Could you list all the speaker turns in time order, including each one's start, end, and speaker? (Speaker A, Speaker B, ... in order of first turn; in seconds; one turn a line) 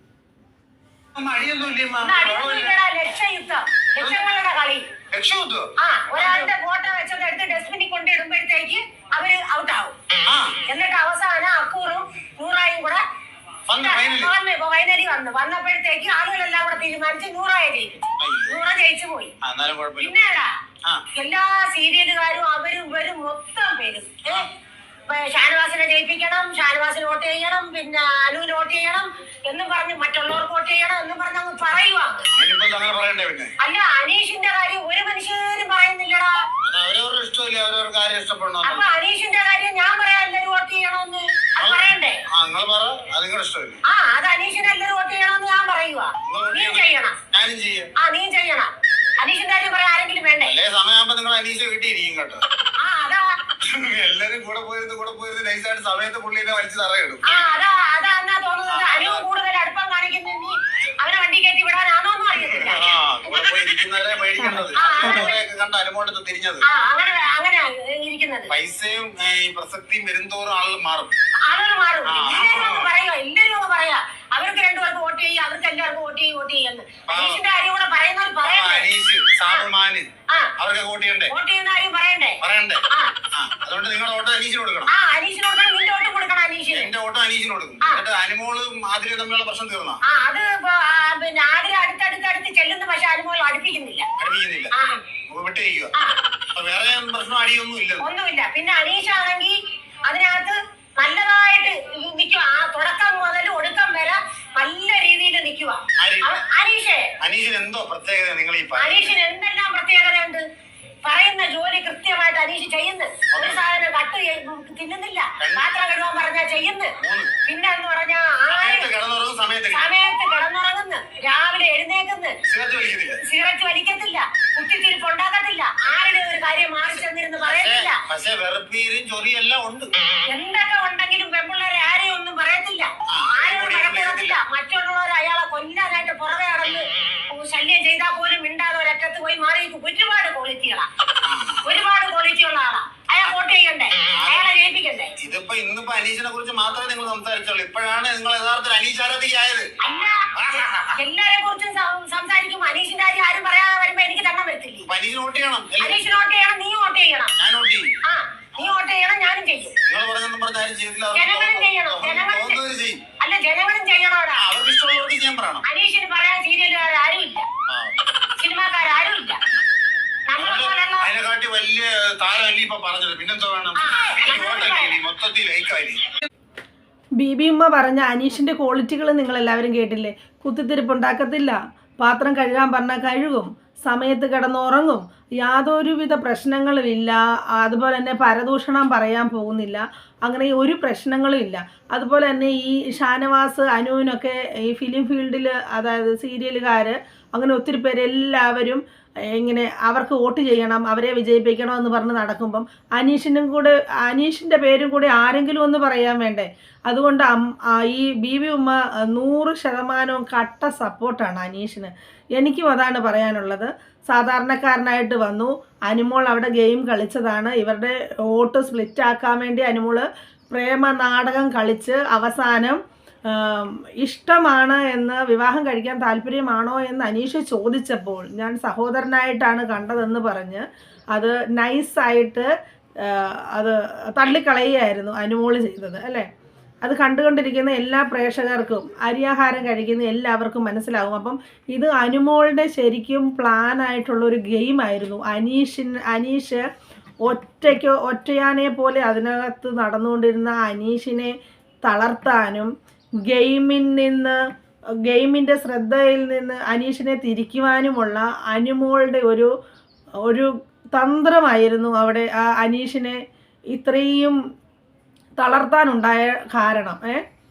Speaker A: 1.2-2.8
Speaker B: 2.0-4.8
Speaker A: 5.1-6.5
Speaker B: 5.8-9.9
Speaker A: 10.3-10.6
Speaker B: 10.7-13.0
Speaker A: 13.7-14.3
Speaker B: 13.8-19.3
Speaker A: 18.2-18.6
Speaker A: 19.4-20.2
Speaker B: 20.0-20.5
Speaker B: 21.1-24.5
Speaker B: 25.1-32.3
Speaker A: 32.3-33.5
Speaker B: 33.6-36.3
Speaker A: 36.7-38.9
Speaker B: 38.6-42.2
Speaker A: 41.6-43.8
Speaker B: 43.9-47.2
Speaker A: 46.2-47.9
Speaker B: 48.0-50.5
Speaker A: 50.4-52.4
Speaker B: 52.8-53.4
Speaker A: 53.6-57.3
Speaker B: 57.2-63.7
Speaker A: 58.7-59.2
Speaker A: 62.4-66.7
Speaker C: 64.4-65.3
Speaker B: 64.8-65.4
Speaker B: 66.7-68.5
Speaker A: 68.5-71.1
Speaker B: 71.5-78.9
Speaker A: 72.1-72.9
Speaker A: 77.1-77.4
Speaker A: 78.4-80.1
Speaker A: 80.6-81.3
Speaker B: 81.3-83.1
Speaker A: 82.4-82.8
Speaker A: 83.3-84.9
Speaker B: 84.9-86.9
Speaker A: 86.7-90.0
Speaker B: 90.1-94.1
Speaker A: 94.2-94.7
Speaker B: 94.7-95.0
Speaker A: 95.3-95.9
Speaker A: 96.5-98.1
Speaker B: 98.0-99.5
Speaker B: 100.1-107.2
Speaker A: 106.0-106.4
Speaker A: 107.2-109.2
Speaker B: 108.8-110.4
Speaker B: 111.0-118.9
Speaker A: 113.3-113.6
Speaker A: 115.4-115.7
Speaker A: 117.0-117.3
Speaker A: 118.5-119.9
Speaker B: 119.7-122.4
Speaker A: 122.5-123.2
Speaker B: 123.2-128.0
Speaker A: 127.4-129.9
Speaker B: 130.3-140.9
Speaker A: 133.1-134.4
Speaker A: 141.2-141.7
Speaker B: 141.7-145.2
Speaker A: 144.1-144.5
Speaker A: 145.2-149.7
Speaker B: 149.8-150.3
Speaker A: 150.4-150.9
Speaker B: 150.9-154.9
Speaker A: 154.9-156.0
Speaker B: 155.8-157.3
Speaker A: 157.4-157.9
Speaker B: 158.1-159.8
Speaker A: 159.8-163.0
Speaker B: 161.1-162.6
Speaker B: 163.2-164.4
Speaker A: 164.4-165.6
Speaker B: 165.7-167.5
Speaker A: 167.7-168.0
Speaker B: 168.4-169.4
Speaker B: 170.3-171.1
Speaker A: 170.4-176.0
Speaker B: 173.8-175.0
Speaker C: 177.2-232.5
Speaker C: 233.0-236.3
Speaker C: 236.8-246.6
Speaker C: 247.2-251.3
Speaker C: 251.8-252.7
Speaker C: 253.3-254.4
Speaker C: 255.1-259.5
Speaker C: 260.2-263.2
Speaker C: 263.7-264.4
Speaker C: 265.4-267.2